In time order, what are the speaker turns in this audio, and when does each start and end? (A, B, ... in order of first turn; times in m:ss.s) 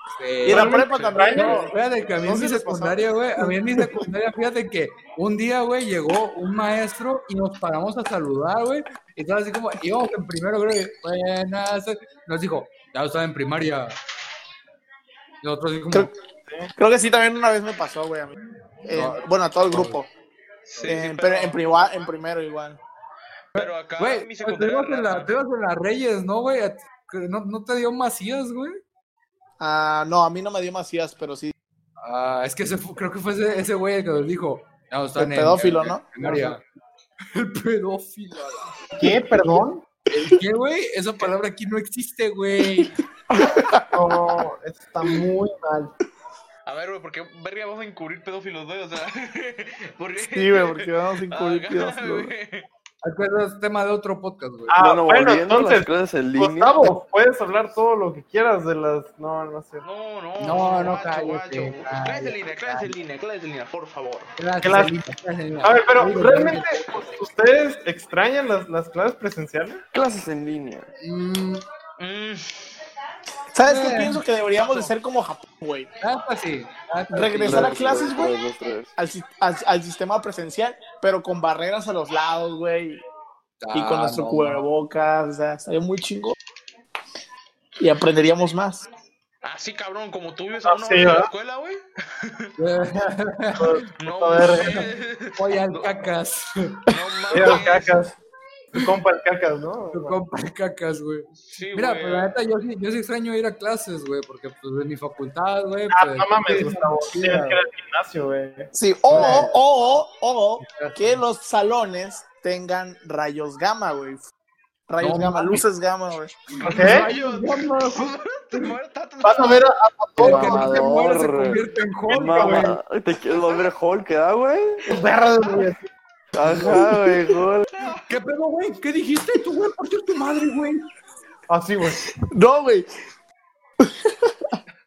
0:00.2-0:00.8 A
0:00.4-0:04.1 B
0:00.5-0:01.7 C
0:00.9-0:01.3 D
0:01.3-0:14.0 A
0:15.4-0:16.1 A
0:16.8-0:20.1 B
0:18.9-0:20.0 A
0:20.7-0:21.9 D
0:20.8-0:22.8 B
0:23.6-0:25.3 D
0:23.6-0:28.8 A
0:29.6-0:31.5 B
0:32.0-0:36.6 A
0:35.2-0:36.1 B
0:36.2-0:36.6 C
0:37.3-0:38.7 A
0:39.0-0:39.9 C
0:40.1-0:43.0 A
0:43.3-0:44.2 B
0:43.9-0:46.0 C
0:46.7-0:52.7 D
0:50.2-0:52.3 B
0:53.0-0:54.8 A
0:54.7-0:59.8 C
0:54.8-0:56.9 E
0:59.8-1:04.3 D
1:00.4-1:02.9 A
1:04.4-1:06.9 A
1:04.6-1:04.9 C
1:05.6-1:09.8 C
1:09.9-1:10.9 E
1:11.0-1:11.6 A
1:12.0-1:12.6 D
1:13.5-1:15.9 B
1:13.6-1:14.2 A
1:14.6-1:14.9 D
1:16.0-1:17.9 A
1:17.1-1:18.4 B
1:17.4-1:18.9 E
1:19.0-1:23.0 B
1:23.6-1:24.7 A
1:23.7-1:26.4 B
1:27.8-1:28.8 B
1:29.4-1:32.5 D
1:30.7-1:31.3 C
1:32.6-1:33.8 A
1:33.6-1:34.9 C
1:34.0-1:36.1 D
1:34.6-1:36.9 A
1:36.9-1:38.0 D
1:37.3-1:38.1 C
1:38.7-1:40.2 C
1:39.9-1:47.6 A
1:41.4-1:42.3 D
1:45.9-1:49.5 C
1:48.7-1:54.2 B
1:49.1-1:49.5 A
1:50.6-1:51.2 A
1:54.9-1:56.4 B
1:55.0-1:55.6 A
1:56.5-1:58.7 A
1:56.6-1:59.6 D
1:56.7-1:57.1 C
1:59.2-2:00.8 C
2:00.2-2:01.6 E
2:00.2-2:02.8 A
2:02.1-2:04.9 E
2:02.1-2:02.7 C
2:03.4-2:03.7 D
2:04.9-2:05.9 C
2:06.3-2:07.7 E
2:06.4-2:07.0 A
2:08.1-2:10.9 A
2:11.5-2:12.0 C
2:12.3-2:12.9 B
2:13.8-2:14.6 B